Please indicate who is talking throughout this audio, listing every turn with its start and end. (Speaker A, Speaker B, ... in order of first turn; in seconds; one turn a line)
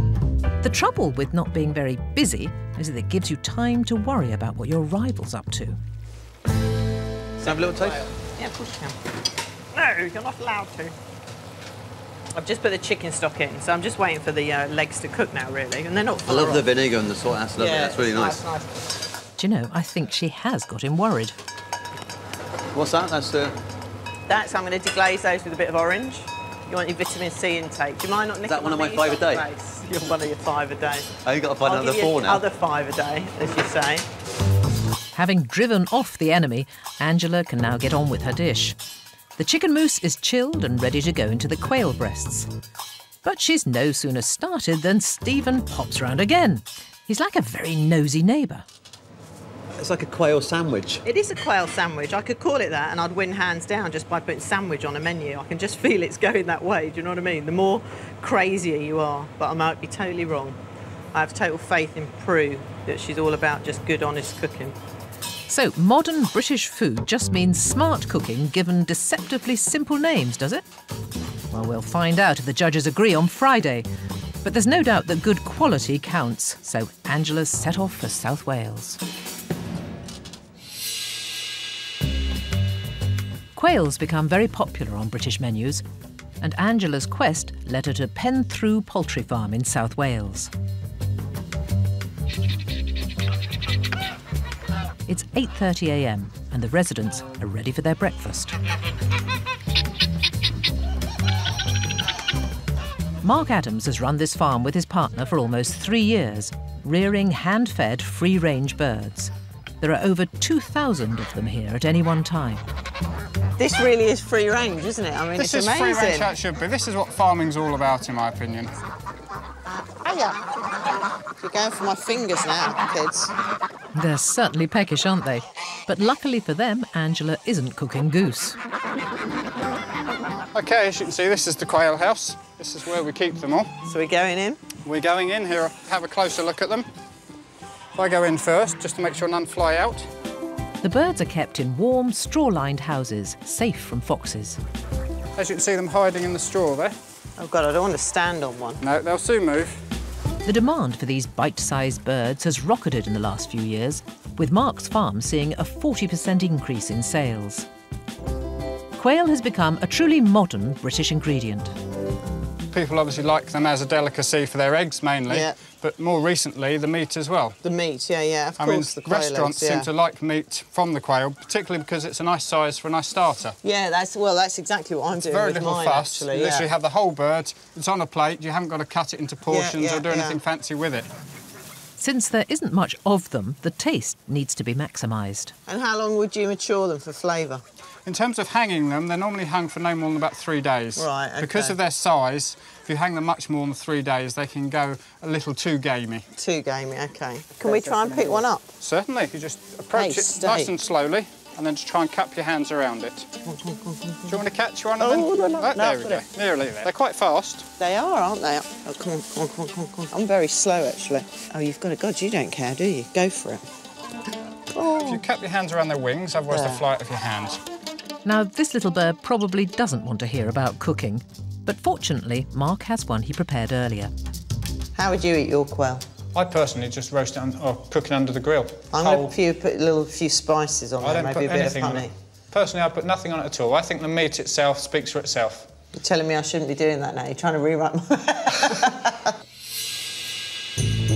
Speaker A: 0.6-5.8
Speaker B: 7.4-8.1
Speaker C: 7.5-9.0
Speaker C: 9.7-10.9
Speaker C: 12.4-16.7
Speaker B: 16.3-18.4
Speaker C: 17.6-18.7
Speaker A: 19.4-21.4
Speaker B: 22.7-23.6
Speaker C: 24.3-34.1
Speaker B: 28.4-29.5
Speaker B: 31.2-32.4
Speaker A: 35.1-38.8
Speaker A: 39.4-42.5
Speaker A: 43.2-48.6
Speaker B: 49.8-51.0
Speaker C: 51.0-60.6
Speaker C: 61.1-64.8
Speaker A: 65.5-70.7
Speaker A: 71.5-73.9
Speaker A: 74.4-79.0
Speaker A: 83.5-85.8
Speaker A: 86.4-90.5
Speaker A: 95.1-98.5
Speaker A: 103.2-112.6
Speaker C: 113.6-116.3
Speaker D: 115.4-118.7
Speaker C: 120.0-120.4
Speaker C: 121.4-123.3
Speaker A: 124.0-128.6
Speaker D: 130.5-133.7
Speaker C: 133.9-134.6
Speaker D: 134.8-136.9
Speaker D: 138.0-140.1
Speaker A: 140.8-144.6
Speaker D: 145.4-147.0
Speaker C: 147.4-148.8
Speaker D: 148.8-149.8
Speaker A: 150.4-157.7
Speaker A: 158.9-161.7
Speaker D: 162.7-167.6
Speaker C: 165.3-165.6
Speaker C: 167.6-169.9
Speaker D: 168.6-173.6
Speaker C: 173.6-176.7
Speaker D: 175.2-181.1
Speaker C: 179.5-180.4
Speaker A: 182.0-185.5
Speaker C: 185.7-187.6
Speaker D: 188.1-196.3
Speaker C: 191.0-191.8
Speaker C: 196.4-198.7
Speaker D: 197.6-203.3
Speaker C: 199.9-200.7
Speaker C: 203.4-204.4
Speaker D: 204.3-207.7
Speaker C: 205.0-206.2
Speaker C: 207.8-213.6
Speaker C: 214.7-215.2
Speaker D: 215.0-217.6
Speaker C: 216.5-216.8
Speaker A: 218.2-224.1
Speaker C: 224.9-226.1
Speaker D: 226.3-229.3
Speaker C: 228.9-232.1
Speaker D: 231.0-235.7
Speaker C: 235.9-239.3